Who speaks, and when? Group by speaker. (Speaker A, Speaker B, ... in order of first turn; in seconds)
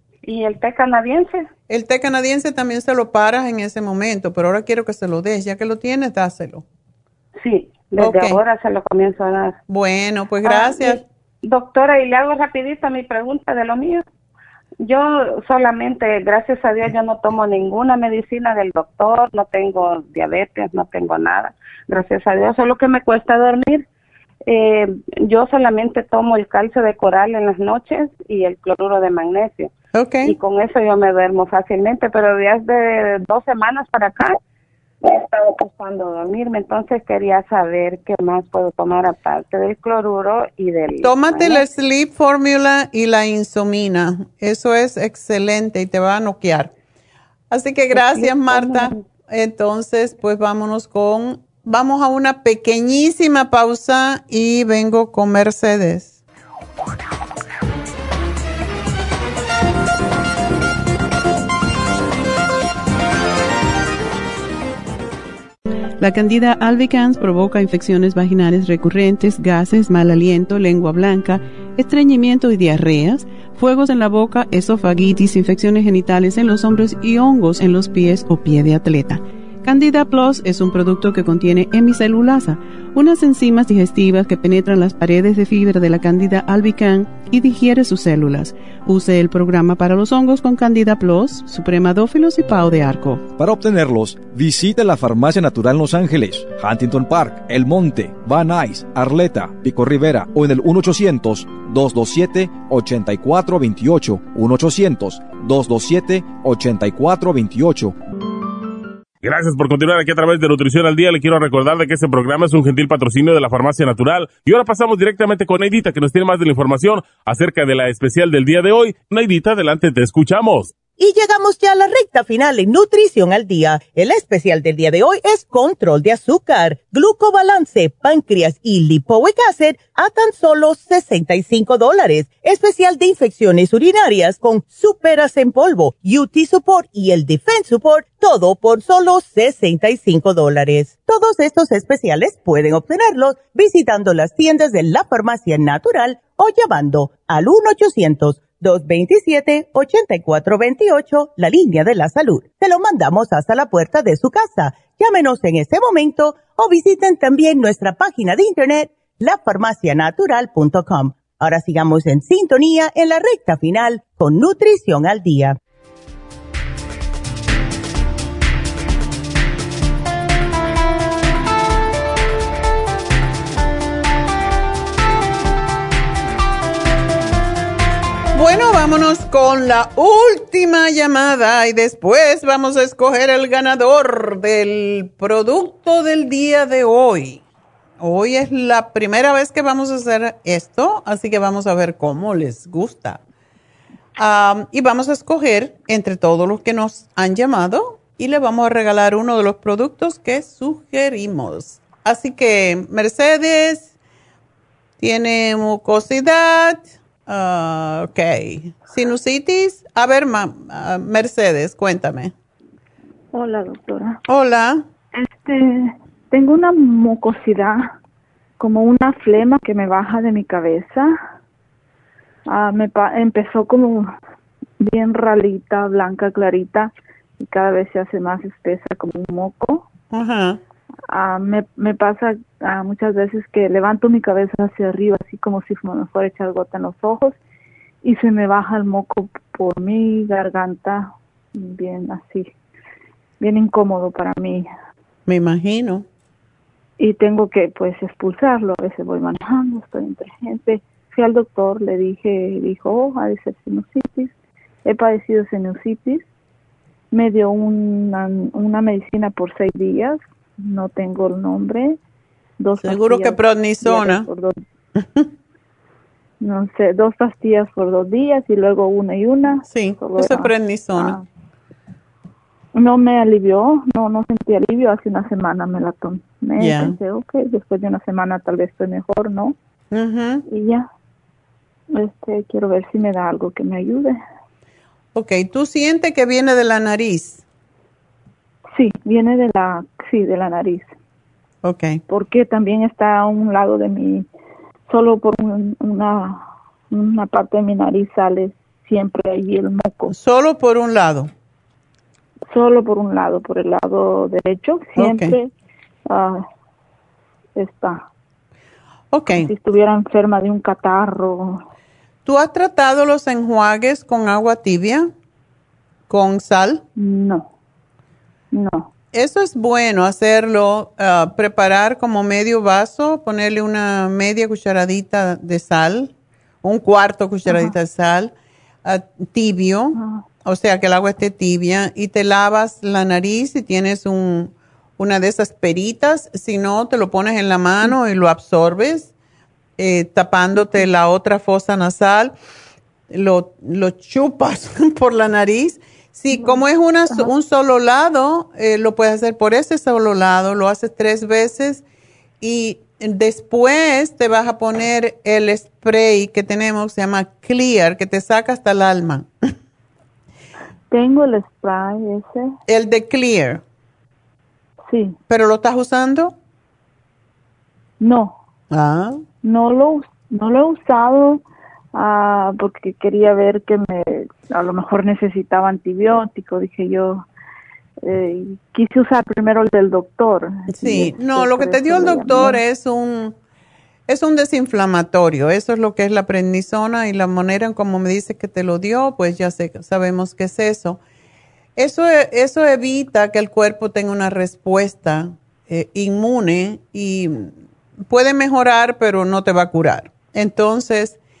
Speaker A: 0.2-1.5, 7.4-9.6, 10.4-14.0, 14.8-23.9, 24.5-29.7, 30.2-34.4, 35.0-41.7, 47.9-49.0
Speaker B: 1.7-6.6, 8.0-8.4, 9.7-11.0, 29.9-30.4, 41.0-46.7, 47.5-56.1, 178.3-187.4, 188.0-193.2, 194.2-203.9, 205.0-212.3, 214.3-214.8, 230.1-230.6, 245.3-246.0, 262.8-264.3, 269.7-271.2, 276.6-276.9, 279.9-280.4, 285.1-287.4, 291.6-292.0, 300.1-301.3, 305.0-305.3, 309.1-309.5, 312.2-315.1, 316.1-316.8, 319.1-326.1, 326.6-328.3, 328.8-339.1, 339.8-342.3, 343.1-351.8, 352.4-359.3, 362.7-363.6, 365.3-366.3, 368.7-369.2, 380.7-383.3, 384.1-391.0, 391.8-397.5, 398.1-401.2
Speaker C: 66.0-93.2
Speaker D: 93.4-107.9
Speaker E: 109.2-120.8
Speaker F: 120.9-165.6
Speaker G: 213.3-214.2, 215.1-217.9, 218.6-221.1, 222.5-224.1, 224.8-229.8, 231.1-237.3, 238.0-242.5, 243.4-244.7, 247.0-254.3, 254.8-256.2, 257.1-262.0, 262.6-264.6, 266.4-271.2, 272.8-279.6, 280.5-280.9, 281.9-284.2, 288.8-290.9, 292.1-294.3, 294.9-300.1, 302.5-305.5, 306.1-306.4, 307.6-308.0, 309.3-311.6, 317.0-317.5, 318.5-318.9, 327.5-327.7, 329.9-330.2, 346.3-347.3, 360.9-362.5, 364.9-365.1, 368.0-368.4, 369.4-371.4, 371.9-377.2, 378.0-382.6